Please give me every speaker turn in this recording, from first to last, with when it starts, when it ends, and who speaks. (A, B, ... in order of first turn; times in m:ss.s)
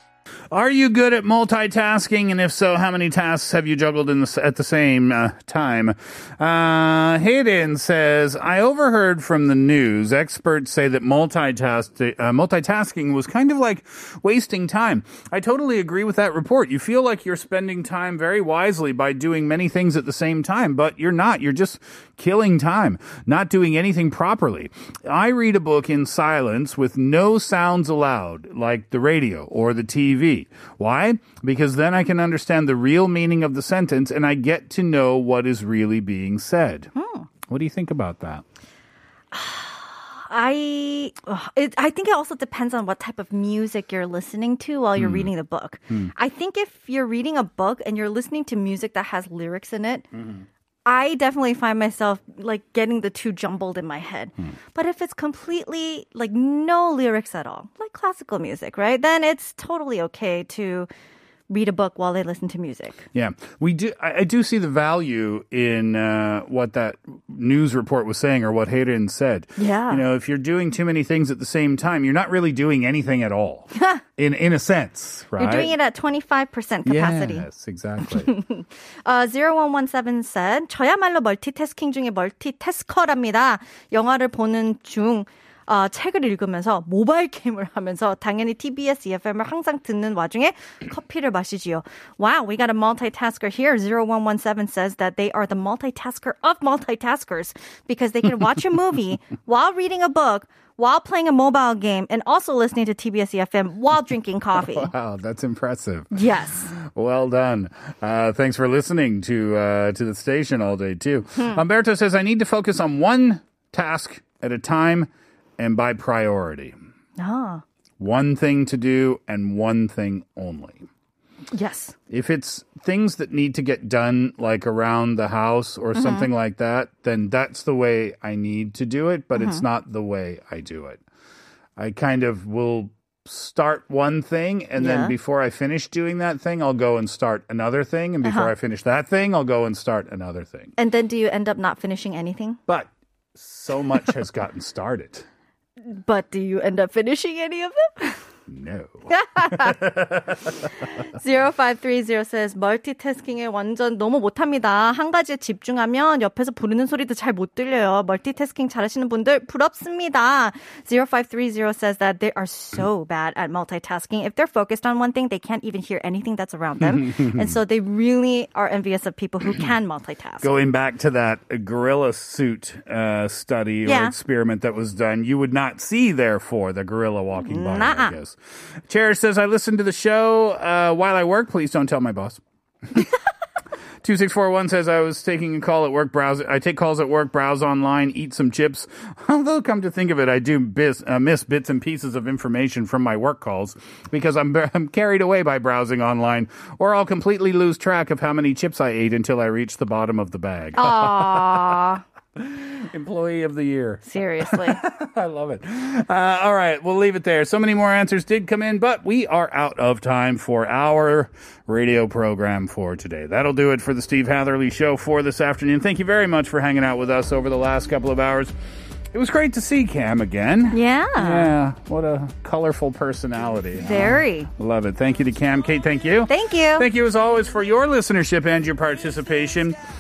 0:00.5-0:36.9 A
0:37.0-0:37.3 B
0:37.5-0:38.4 A
0:39.3-0:50.1 B
0:45.0-0:45.3 A
0:50.1-0:50.5 A
0:50.8-1:00.9 B
1:01.5-1:03.0 B
1:03.1-1:15.7 A
1:09.6-1:10.0 B
1:13.7-1:14.0 B
1:15.4-1:17.5 B
1:16.8-1:18.3 A
1:18.0-1:44.9 B
1:44.6-1:56.7 A
1:46.1-1:46.7 B
1:51.4-1:51.6 B
1:57.2-1:57.6 B
1:58.0-2:00.9 A
2:01.5-2:02.0 B
2:02.1-2:11.0 A
2:06.0-2:06.3 B
2:09.3-2:09.6 B
2:11.8-2:20.7 A
2:14.8-2:15.2 B
2:18.2-2:18.5 B
2:20.8-2:22.6 B
2:22.7-2:25.3 A
2:25.8-2:28.2 B
2:28.5-2:30.5 A
2:29.1-2:29.8 B
2:30.6-2:50.5 B
2:46.8-2:47.6 A
2:50.4-2:58.4 A
2:53.8-2:54.2 B
2:57.4-2:58.2 B
2:58.9-3:02.4 A
3:04.0-3:21.8 A
3:20.8-3:22.0 B
3:22.4-3:38.5 A
3:24.0-3:24.8 B
3:39.1-3:49.8 A
3:40.7-3:41.6 B
3:43.8-3:44.5 B
3:46.3-3:46.9 B